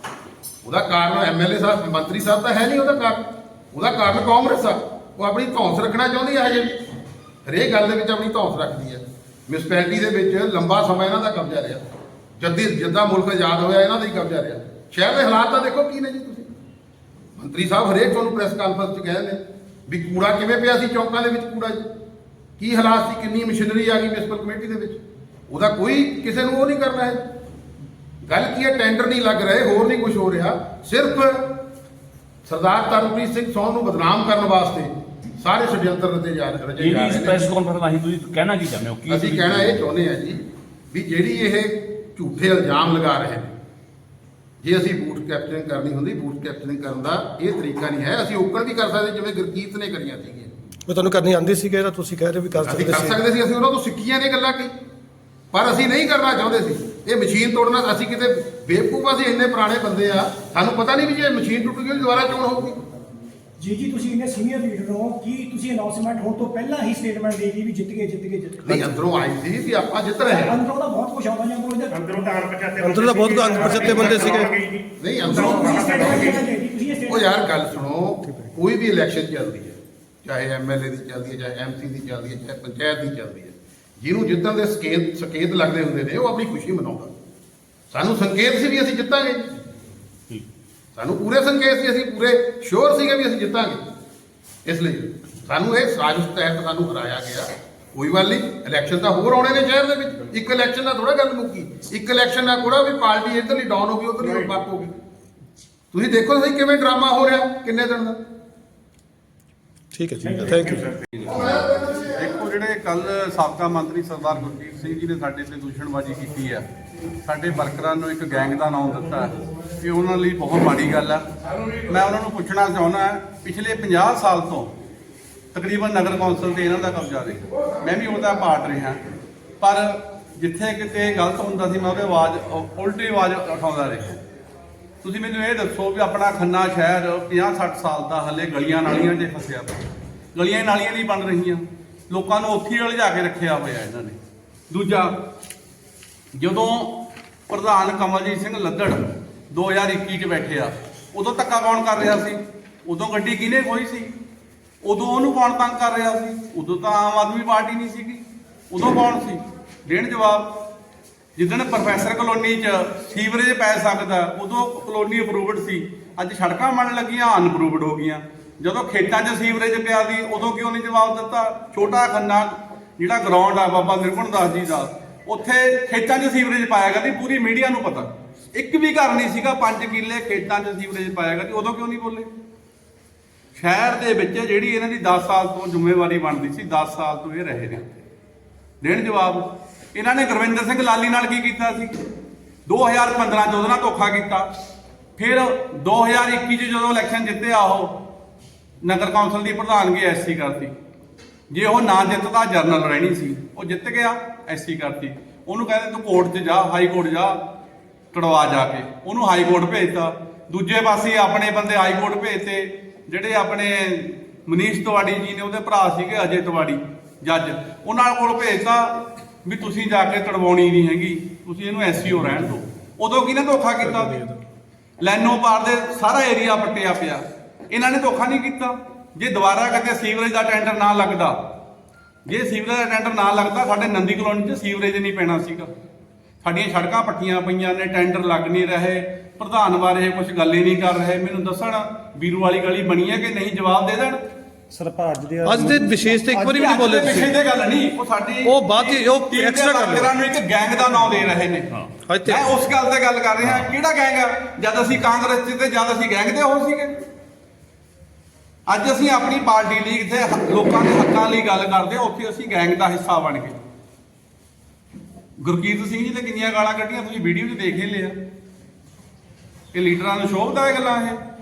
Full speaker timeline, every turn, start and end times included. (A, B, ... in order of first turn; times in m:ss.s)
0:00.6-0:06.8 A
0:07.4-0:11.8 A
0:12.4-0:16.6 A
0:17.4-0:21.9 A
0:22.6-0:27.2 A
0:28.2-0:31.6 A
0:32.4-0:37.4 A
0:36.8-0:39.8 B
0:39.1-0:43.5 A
0:44.6-0:50.5 A
0:50.9-0:53.2 C
0:52.6-0:54.7 A
0:55.5-1:02.8 A
1:03.6-1:08.9 D
1:08.6-1:10.6 A
1:10.3-1:12.0 D
1:11.9-1:16.5 E
1:12.8-1:14.5 C
1:13.7-1:14.0 D
1:15.0-1:16.4 A
1:15.3-1:17.5 D
1:17.1-1:27.1 A
1:27.9-1:29.5 A
1:30.9-1:33.8 A
1:34.6-1:44.9 A
1:44.2-1:44.6 E
1:45.9-1:48.2 A
1:49.9-1:50.8 C
1:50.3-1:51.5 E
1:51.2-1:52.3 A
1:52.1-1:56.6 F
1:57.2-2:01.2 F
2:01.9-2:04.7 F
2:05.5-2:09.0 F
2:09.6-2:14.2 F
2:15.0-2:19.8 F
2:20.3-2:24.2 F
2:24.7-2:25.1 F
2:26.3-2:27.0 F
2:27.5-2:34.1 F
2:34.8-2:40.6 F
2:41.4-3:02.3 F
3:03.6-3:07.9 F
3:08.8-3:11.9 F
3:12.7-3:14.5 F
3:15.2-3:17.9 F
3:18.8-3:20.7 F
3:21.5-3:27.4 F
3:28.1-3:44.2 F
3:43.8-3:44.4 C
3:45.0-3:51.4 F
3:52.3-3:55.7 F
3:56.4-4:04.2 F
4:04.7-4:07.0 G
4:05.4-4:07.3 C
4:06.4-4:11.7 F
4:08.4-4:10.1 C
4:12.1-4:12.5 C
4:12.2-4:16.9 F
4:18.7-4:23.6 F
4:25.4-4:28.2 F
4:29.7-4:31.2 F